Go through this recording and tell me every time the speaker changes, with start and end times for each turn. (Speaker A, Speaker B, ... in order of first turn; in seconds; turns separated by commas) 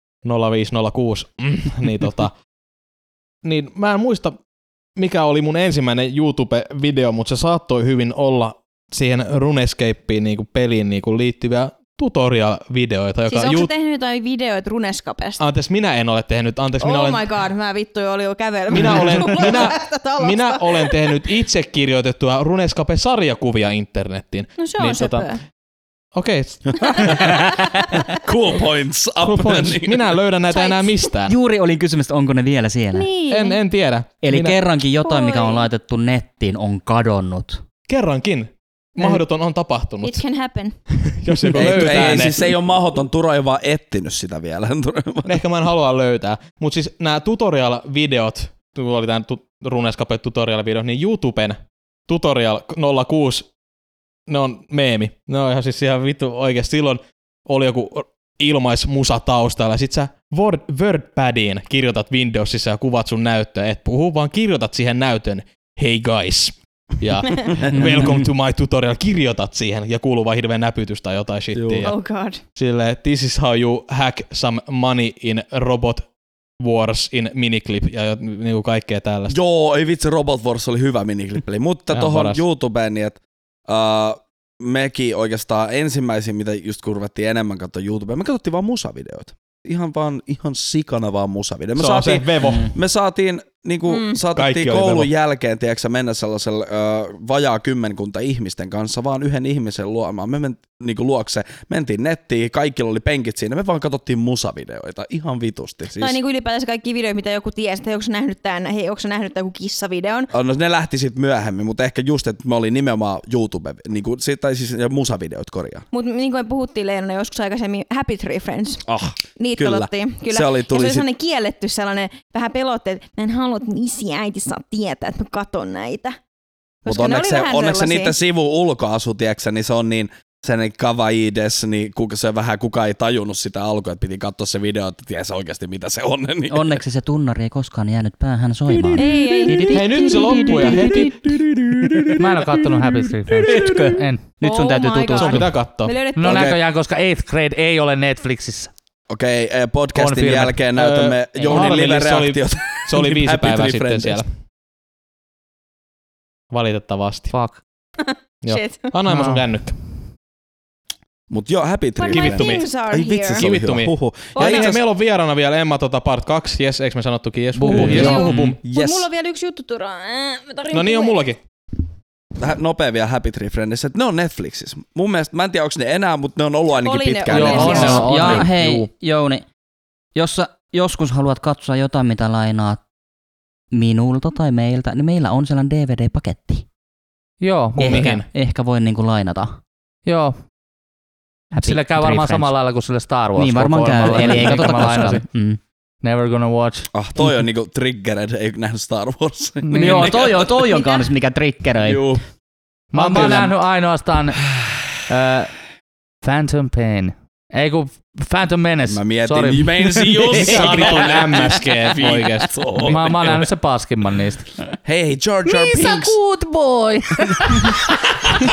Speaker A: 0.2-2.3, Speaker A: 3.4-4.4, Speaker A: 5.0-13.7, Speaker B: 13.3-15.4, Speaker A: 15.4-17.3, Speaker B: 16.8-21.2, Speaker A: 18.7-25.3, Speaker B: 24.6-25.4, Speaker A: 26.1-27.2, Speaker C: 26.8-27.1, Speaker B: 26.9-27.4, Speaker C: 28.2-30.0, Speaker A: 29.2-31.4, Speaker B: 30.5-31.1, Speaker D: 31.3-33.1, Speaker B: 32.9-33.6, Speaker A: 33.3-34.6, Speaker D: 34.2-37.6, Speaker B: 35.0-35.7, Speaker A: 37.9-40.2, Speaker B: 40.0-40.9, Speaker A: 40.9-42.5, Speaker C: 41.5-45.4, Speaker A: 45.3-53.5, Speaker A: 54.3-72.0, Speaker B: 67.3-67.6, Speaker D: 67.7-68.3, Speaker C: 71.5-71.9, Speaker B: 71.8-72.4, Speaker A: 72.5-79.4, Speaker C: 79.3-106.2, Speaker A: 81.9-82.4, Speaker A: 91.8-92.8, Speaker D: 92.4-92.7, Speaker B: 93.9-94.2, Speaker A: 94.3-95.1, Speaker B: 106.0-110.3, Speaker C: 110.3-115.9, Speaker B: 115.9-118.8, Speaker C: 118.9-121.1, Speaker B: 119.4-126.2, Speaker B: 126.8-128.2, Speaker C: 126.9-136.7, Speaker D: 136.5-141.3, Speaker C: 139.0-139.3, Speaker B: 139.0-141.0, Speaker A: 139.7-141.4, Speaker A: 141.9-142.2, Speaker E: 142.2-144.2, Speaker D: 143.3-145.5, Speaker A: 143.5-143.8, Speaker B: 144.4-146.5, Speaker A: 145.2-146.0, Speaker E: 146.1-148.7, Speaker C: 146.2-146.6, Speaker C: 149.1-154.2, Speaker E: 149.9-150.6, Speaker A: 150.7-154.3, Speaker A: 156.5-157.3, Speaker E: 157.3-157.6, Speaker B: 158.0-158.9, Speaker A: 158.4-160.0, Speaker E: 159.1-159.5, Speaker C: 161.3-164.8, Speaker B: 162.0-163.5, Speaker A: 162.1-162.7, Speaker A: 163.3-168.6, Speaker B: 164.3-164.8, Speaker E: 167.6-168.2, Speaker D: 167.6-168.6, Speaker B: 167.7-171.2, Speaker C: 168.6-169.1, Speaker A: 170.7-171.4, Speaker C: 172.4-178.1, Speaker B: 176.8-178.5, Speaker E: 177.3-178.9, Speaker A: 177.5-178.4, Speaker D: 177.8-179.5, Speaker D: 180.2-182.8, Speaker D: 183.7-186.7, Speaker E: 187.4-188.2, Speaker A: 187.8-188.3, Speaker D: 187.8-189.6, Speaker E: 190.1-190.4, Speaker D: 191.5-192.5, Speaker E: 191.6-195.4, Speaker D: 193.4-195.6, Speaker E: 196.0-196.9, Speaker C: 196.9-200.8, Speaker E: 199.6-200.2, Speaker D: 199.7-202.1, Speaker B: 200.7-201.0, Speaker C: 201.8-202.2, Speaker A: 202.9-203.6, Speaker E: 202.9-205.6, Speaker E: 206.2-210.2, Speaker C: 208.9-213.5, Speaker A: 210.3-213.0, Speaker E: 212.8-214.6, Speaker C: 214.8-216.2, Speaker E: 215.4-217.9